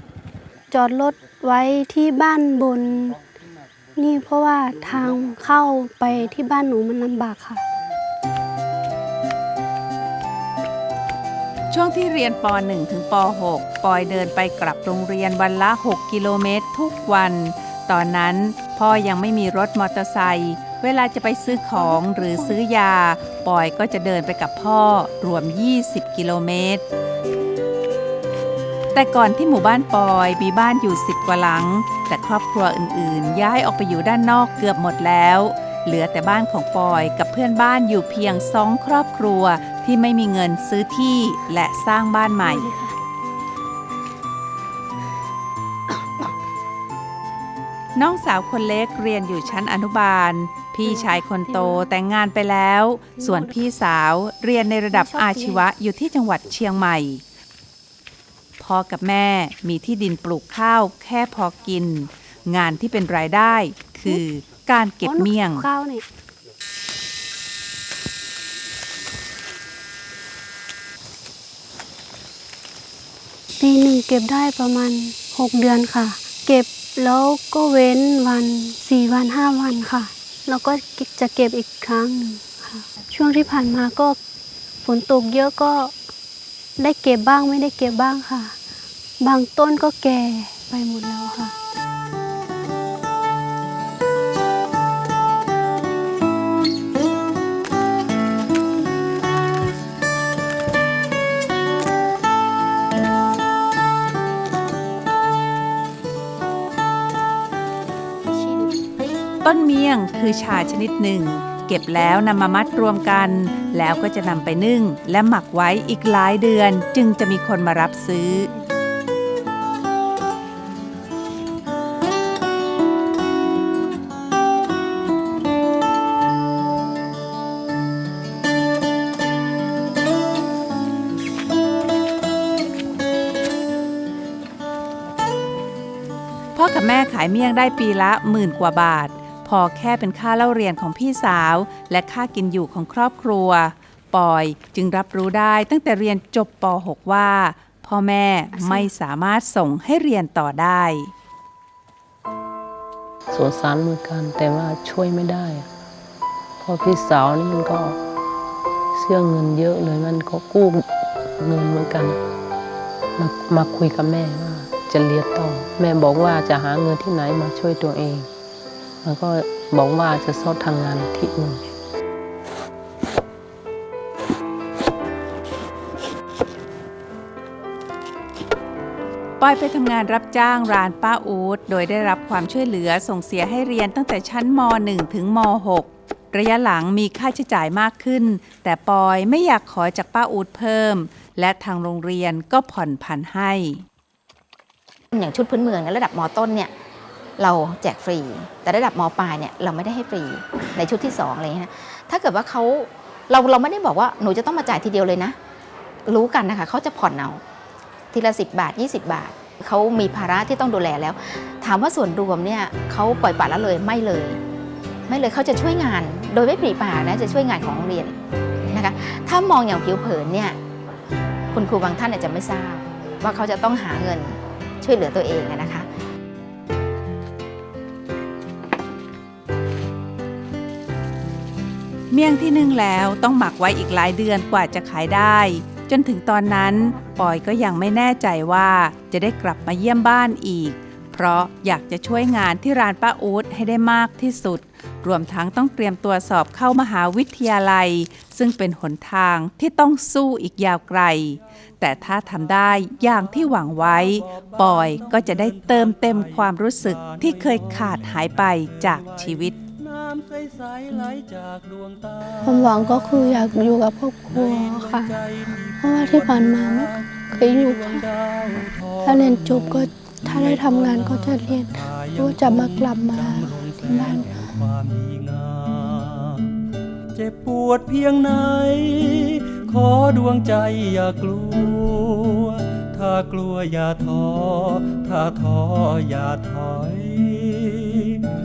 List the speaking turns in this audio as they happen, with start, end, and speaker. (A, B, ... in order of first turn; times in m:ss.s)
0:00.7-0:03.2 A
0:04.0-0:07.6 A
0:11.7-0:26.8 B
0:21.5-0:22.6 A
0:28.9-0:42.7 B
0:42.4-0:42.9 A
0:48.0-0:57.2 B
0:50.8-0:51.8 A
0:53.2-0:53.6 A
0:54.9-0:55.7 A
0:58.6-1:05.7 B
1:05.0-1:06.0 A
1:13.6-1:24.2 A
1:24.8-1:25.9 A
1:26.8-1:28.6 A
1:29.2-1:31.5 A
1:48.3-1:48.7 A
1:49.4-1:58.5 B
2:16.6-2:31.1 B
2:28.5-2:28.9 C
2:33.3-2:35.7 D
2:36.6-2:38.0 D
2:38.9-2:40.9 D
2:41.4-2:42.2 D
2:43.2-2:48.3 D
2:49.0-2:51.6 D
2:59.4-3:13.8 B
3:15.1-3:16.7 C
3:17.4-3:25.4 C
3:26.1-3:27.4 C
3:28.1-3:34.4 C
3:35.1-3:40.6 C
3:41.5-3:45.9 C
3:52.1-4:19.6 B
4:12.0-4:23.6 E
4:22.4-4:25.2 A
4:24.3-4:36.5 E
4:25.8-4:28.1 A
4:29.0-4:34.3 A
4:37.1-4:48.2 E